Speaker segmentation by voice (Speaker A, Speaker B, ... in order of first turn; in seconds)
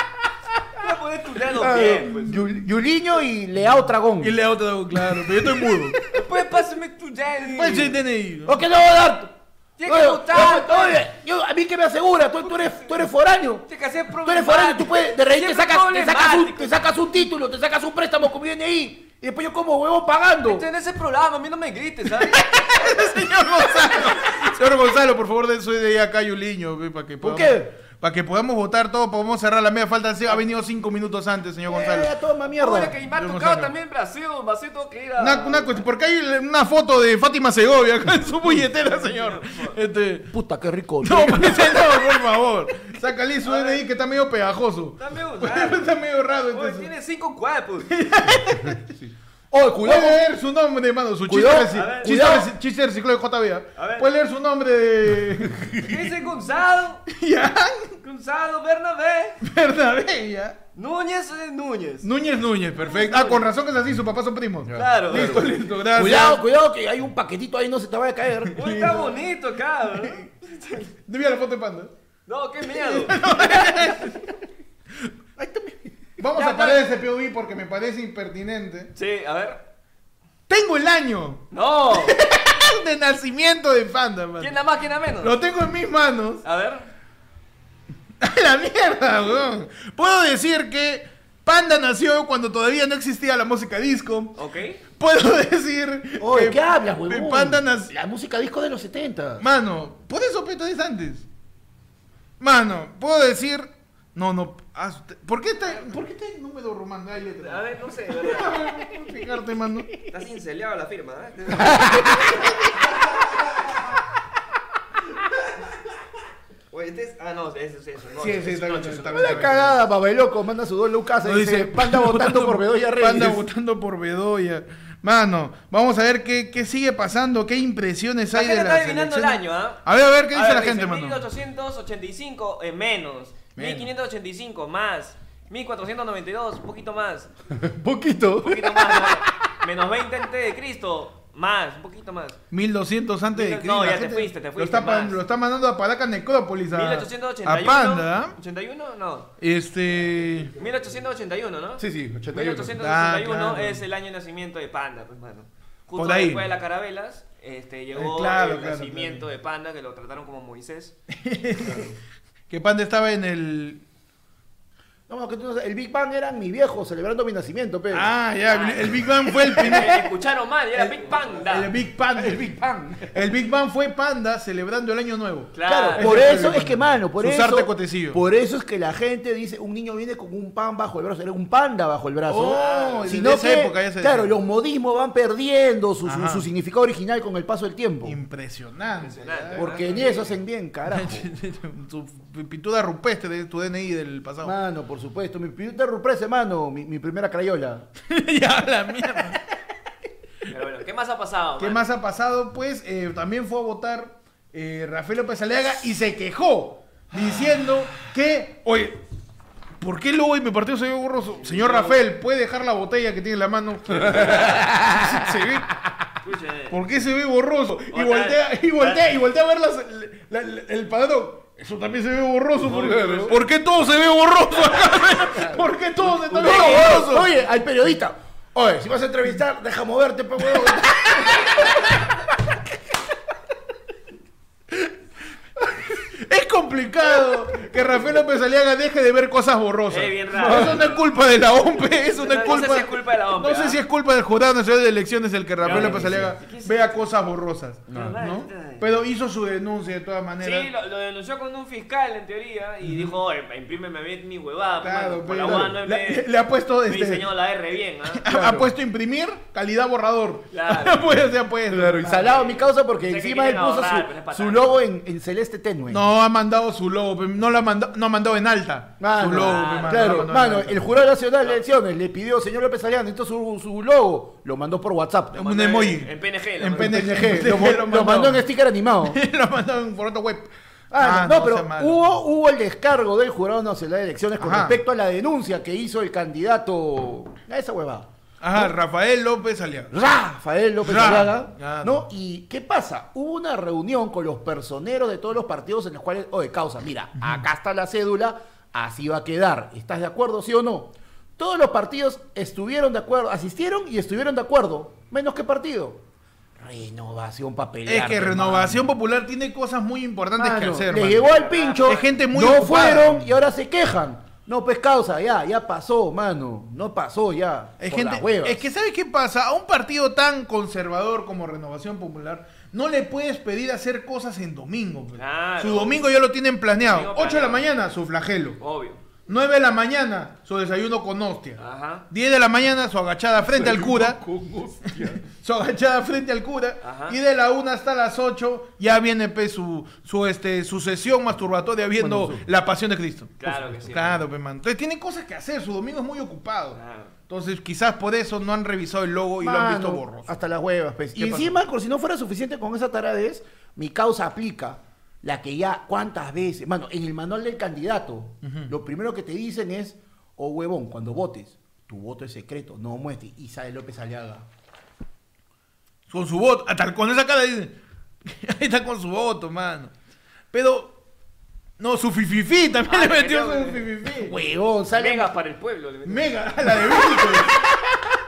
Speaker A: 0.8-2.5, 6.1-7.9, 9.8-11.0, 12.5-12.9, 13.7-16.8, 20.4-23.1, 32.6-35.8, 38.8-39.8, 43.4-43.8, 45.0-45.9, 46.5-47.9, 51.7-52.2, 53.8-54.1, 55.8-57.0, 58.0-59.4, 60.7-62.1, 62.8-63.5, 64.7-65.5, 68.5-70.9, 72.2-73.8, 76.3-76.8, 78.9-79.6, 81.5-82.2, 84.4-85.4, 86.4-86.9, 94.3-94.8, 107.2-108.7, 110.1-112.6, 116.7-119.5, 128.3-137.3, 138.4-142.4, 143.3-145.2, 146.7-149.3, 150.6-160.9, 168.5-171.7, 175.5-176.4, 182.5-183.1, 189.0-190.3, 200.5-201.9, 211.4-212.0, 216.2-216.8, 217.9-219.0, 226.4-226.8, 239.9-240.9, 242.1-243.8, 245.6-247.1, 247.9-248.9, 250.4-256.3, 256.9-258.2, 260.5-261.0, 262.0-264.8, 269.3-270.3, 275.4-277.2, 311.2-312.1, 325.1-326.0, 326.8-327.6, 328.6-329.0, 331.6-332.1, 336.8-337.2, 343.4-344.2, 346.7-347.1, 372.9-373.9, 374.9-376.3
Speaker B: 1.5-4.3, 5.1-6.0, 8.4-9.3, 9.8-20.6, 27.2-27.7, 31.7-33.0, 40.3-42.0, 49.0-50.2, 51.3-52.5, 64.7-69.1, 75.4-75.9, 96.2-99.4, 111.6-112.2, 119.0-123.4, 137.5-139.4, 151.8-152.8, 165.1-168.1, 169.4-170.0, 170.8-171.4, 172.1-173.2, 175.6-188.2, 189.5-191.3, 194.4-197.9, 213.9-215.1, 222.6-223.4, 226.2-231.9, 240.3-240.8, 245.6-246.3, 247.9-248.2, 255.4-255.8, 258.3-258.7, 261.7-266.0, 269.0-275.5, 276.7-279.2, 280.9-288.7, 289.9-306.0, 306.6-308.8, 310.4-318.6, 333.5-335.2, 342.0-342.4, 343.4-343.9, 349.4-364.4, 374.2-375.3
Speaker C: 4.2-6.0, 7.5-8.6, 22.2-32.1, 33.1-33.7, 35.2-40.3, 41.0-46.9, 47.9-48.8, 49.8-56.0, 57.1-58.0, 59.4-60.6, 62.0-66.4, 68.6-69.1, 71.0-71.9, 72.7-74.2, 76.2-78.9, 80.5-84.6, 85.2-86.4, 88.2-94.3, 95.0-97.9, 99.4-101.2, 102.4-109.9, 118.2-119.8, 121.2-131.2, 133.6-133.9, 142.5-148.3, 149.4-150.5, 152.8-153.8, 155.9-156.4, 157.9-159.3, 161.1-161.9, 162.5-163.8, 167.9-170.0, 171.4-172.4, 173.1-178.2, 182.3-184.3, 186.0-186.5, 188.0-190.2, 190.9-194.5, 198.1-199.4, 201.6-209.0, 209.8-215.7, 216.7-227.3, 236.0-250.7, 252.9-253.1, 254.8-257.3, 258.1-262.1, 265.9-270.9, 275.3-278.4, 279.0-282.1, 284.4-284.8, 288.4-289.9, 290.8-292.1, 307.9-311.3, 311.8-313.3, 317.8-328.6, 329.3-334.2, 335.0-350.3, 351.1-351.6, 358.4-358.7, 366.1-369.9, 370.5-370.9, 371.8-374.4, 376.0-377.8